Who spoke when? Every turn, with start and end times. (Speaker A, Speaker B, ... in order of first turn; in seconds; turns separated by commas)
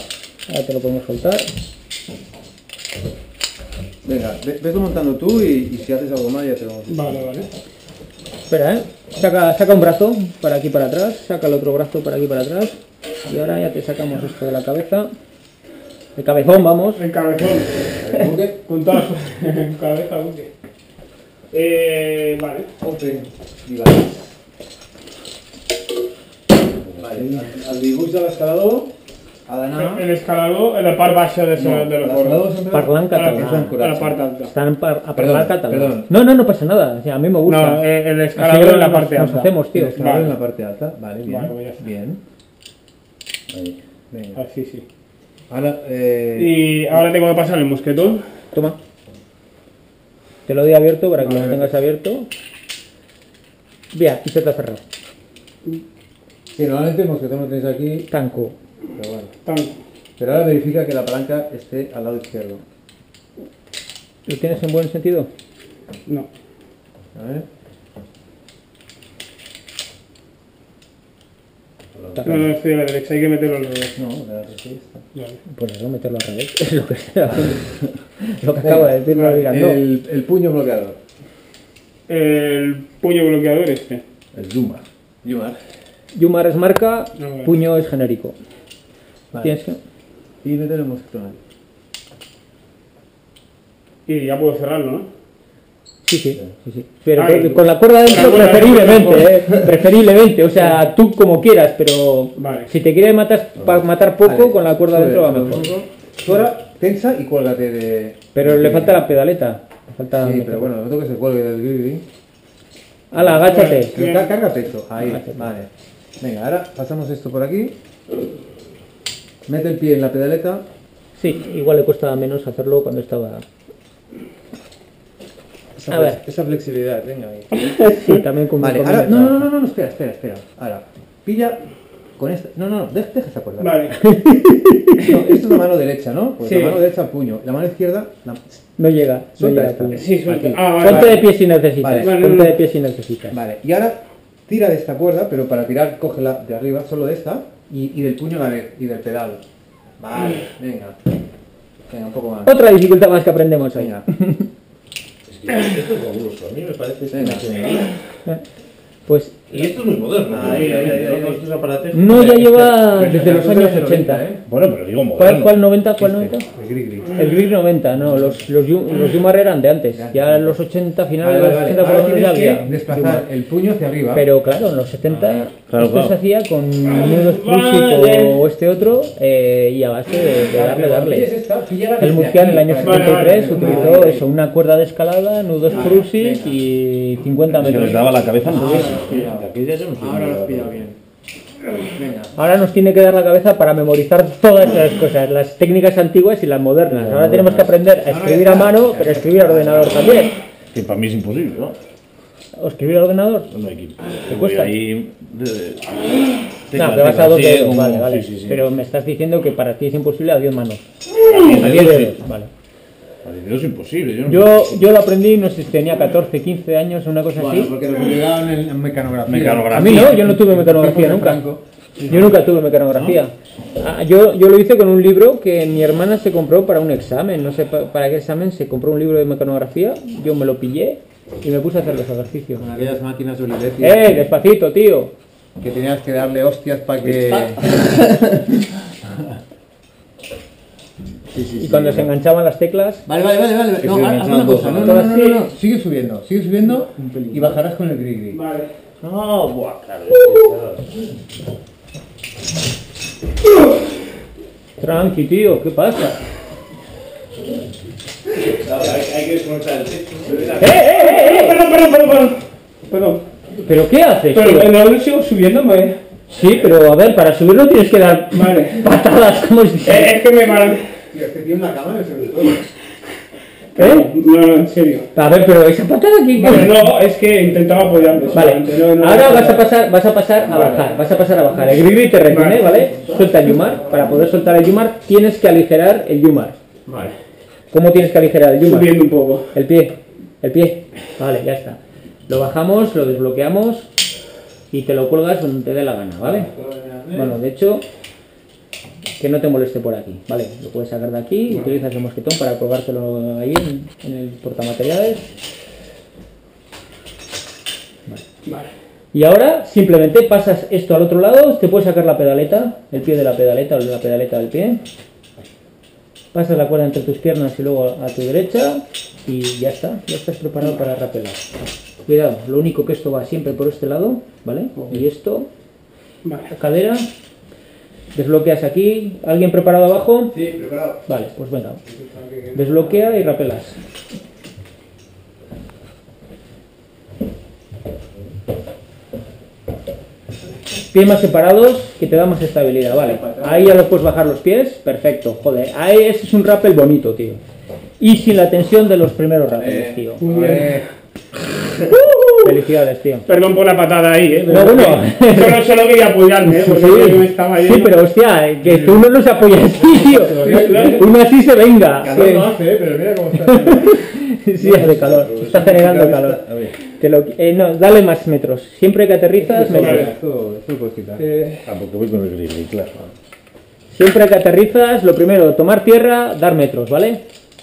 Speaker A: 0.5-1.5, Speaker B: 4.0-7.0, Speaker C: 6.9-7.5, Speaker A: 8.5-15.1, Speaker A: 16.1-17.0, Speaker C: 17.0-17.9, Speaker B: 18.0-18.6, Speaker C: 18.6-20.5, Speaker C: 21.5-22.7, Speaker B: 22.8-24.3, Speaker B: 27.0-28.9, Speaker B: 29.5-30.0, Speaker C: 29.7-32.5, Speaker B: 31.6-34.2, Speaker A: 32.7-33.8, Speaker C: 33.1-34.5, Speaker A: 34.4-37.8, Speaker B: 35.1-36.1, Speaker C: 37.4-40.3, Speaker A: 38.4-40.0, Speaker B: 39.7-42.2, Speaker C: 41.2-41.8, Speaker B: 44.1-44.4, Speaker C: 44.3-44.8, Speaker B: 45.5-47.0, Speaker C: 46.4-48.2, Speaker A: 48.5-48.8, Speaker A: 50.5-52.3, Speaker C: 51.2-51.7, Speaker A: 53.9-54.8, Speaker B: 56.5-58.1, Speaker A: 58.1-58.5, Speaker B: 58.9-59.3, Speaker C: 59.4-59.8, Speaker B: 60.2-62.6, Speaker A: 64.3-65.3, Speaker B: 67.1-67.4, Speaker A: 72.2-72.4, Speaker C: 72.2-74.0, Speaker B: 74.0-75.0, Speaker A: 75.5-79.8, Speaker B: 78.6-81.0, Speaker C: 79.1-79.5, Speaker C: 82.1-84.0, Speaker D: 84.3-84.8, Speaker B: 85.2-85.6, Speaker A: 86.1-88.3, Speaker C: 87.2-87.5, Speaker B: 89.3-89.6, Speaker A: 89.4-89.8, Speaker B: 90.4-91.4, Speaker C: 94.0-95.1, Speaker A: 96.0-105.7, Speaker C: 97.1-99.4, Speaker C: 102.3-102.7, Speaker B: 104.2-109.0, Speaker A: 108.3-110.7, Speaker B: 110.2-112.0, Speaker A: 113.1-113.9, Speaker B: 113.1-115.7, Speaker C: 113.4-114.3, Speaker A: 115.0-115.4, Speaker B: 116.2-117.7, Speaker B: 119.5-120.6, Speaker A: 121.2-123.4, Speaker B: 125.7-127.7, Speaker A: 125.9-126.2, Speaker C: 127.6-128.2, Speaker A: 127.8-129.4, Speaker B: 128.6-131.6, Speaker B: 132.2-133.9, Speaker C: 133.6-134.0, Speaker A: 134.0-135.3, Speaker B: 135.0-138.6, Speaker C: 136.4-136.8, Speaker A: 138.8-140.0, Speaker B: 139.4-141.2, Speaker C: 139.9-141.2, Speaker A: 140.8-143.3, Speaker B: 141.8-142.2, Speaker C: 141.9-142.5, Speaker B: 143.3-149.4, Speaker B: 150.0-151.0, Speaker B: 151.9-152.5, Speaker A: 152.4-154.5, Speaker B: 153.7-154.1, Speaker D: 155.3-158.0, Speaker B: 157.1-157.5, Speaker A: 159.1-159.7, Speaker D: 159.5-162.3, Speaker B: 160.3-164.4, Speaker A: 161.9-164.2, Speaker D: 164.5-165.5, Speaker A: 165.1-166.4, Speaker B: 166.0-167.2, Speaker A: 167.1-173.2, Speaker B: 168.0-168.4, Speaker B: 169.9-170.6, Speaker B: 171.2-174.2, Speaker A: 174.1-181.3, Speaker D: 175.7-176.1, Speaker C: 176.8-178.4, Speaker B: 180.5-184.2, Speaker A: 182.0-188.0, Speaker C: 182.8-184.1, Speaker B: 185.7-186.6, Speaker D: 187.5-190.8, Speaker B: 187.6-191.0, Speaker B: 191.8-192.3, Speaker A: 192.3-200.4, Speaker D: 196.9-197.7, Speaker B: 198.0-200.2, Speaker D: 200.7-201.8, Speaker A: 202.5-203.5, Speaker D: 203.5-208.6, Speaker A: 204.2-204.7, Speaker A: 206.7-212.5, Speaker D: 211.2-212.2, Speaker D: 213.2-214.8, Speaker A: 214.3-217.7, Speaker B: 217.3-221.6, Speaker D: 219.2-220.2, Speaker A: 219.7-221.5, Speaker D: 222.0-223.1, Speaker A: 222.1-232.7, Speaker B: 232.6-234.1, Speaker A: 233.8-235.1, Speaker B: 235.6-237.7, Speaker D: 237.1-237.9, Speaker B: 241.3-242.1, Speaker A: 241.6-243.0, Speaker B: 243.1-248.4, Speaker A: 243.8-245.3, Speaker D: 244.6-244.9, Speaker C: 244.9-245.4, Speaker A: 247.0-247.3, Speaker C: 248.3-248.7, Speaker D: 249.0-251.0, Speaker A: 254.8-256.2, Speaker D: 258.5-260.8, Speaker A: 260.6-261.6, Speaker C: 260.8-263.2, Speaker A: 263.6-264.7, Speaker C: 264.3-266.0, Speaker A: 266.3-270.1, Speaker C: 268.3-268.9, Speaker C: 269.8-270.9, Speaker B: 271.1-272.7, Speaker C: 273.7-275.1, Speaker A: 273.8-274.1, Speaker A: 275.1-276.8, Speaker C: 276.4-279.6, Speaker A: 278.3-286.6, Speaker C: 280.4-280.9, Speaker C: 282.2-283.3, Speaker C: 286.9-287.1, Speaker A: 287.7-288.9, Speaker C: 288.6-289.5, Speaker A: 289.5-293.9, Speaker A: 294.7-296.5, Speaker B: 296.2-297.4, Speaker A: 297.1-297.8, Speaker A: 299.2-305.3, Speaker A: 309.1-314.8, Speaker A: 316.3-321.4, Speaker A: 322.1-325.5, Speaker C: 324.8-325.0, Speaker C: 326.2-326.5, Speaker A: 326.5-327.1, Speaker A: 328.1-330.4, Speaker B: 330.3-331.0, Speaker A: 331.1-331.8, Speaker B: 331.9-333.1, Speaker A: 332.5-333.8, Speaker A: 340.9-347.4, Speaker B: 342.9-343.7, Speaker A: 348.0-350.2, Speaker B: 349.5-350.9, Speaker C: 350.2-350.8, Speaker C: 351.9-352.5, Speaker A: 352.4-353.3, Speaker C: 353.2-358.0, Speaker A: 354.5-355.6, Speaker A: 356.5-362.5, Speaker C: 358.6-359.0, Speaker C: 360.0-361.1, Speaker B: 360.3-361.0, Speaker B: 362.0-364.1, Speaker A: 363.4-370.1, Speaker B: 364.6-366.4, Speaker D: 364.7-365.7, Speaker D: 366.4-366.7, Speaker B: 369.4-371.2, Speaker C: 369.6-370.1, Speaker C: 371.2-371.7, Speaker D: 371.6-373.1, Speaker A: 373.9-377.2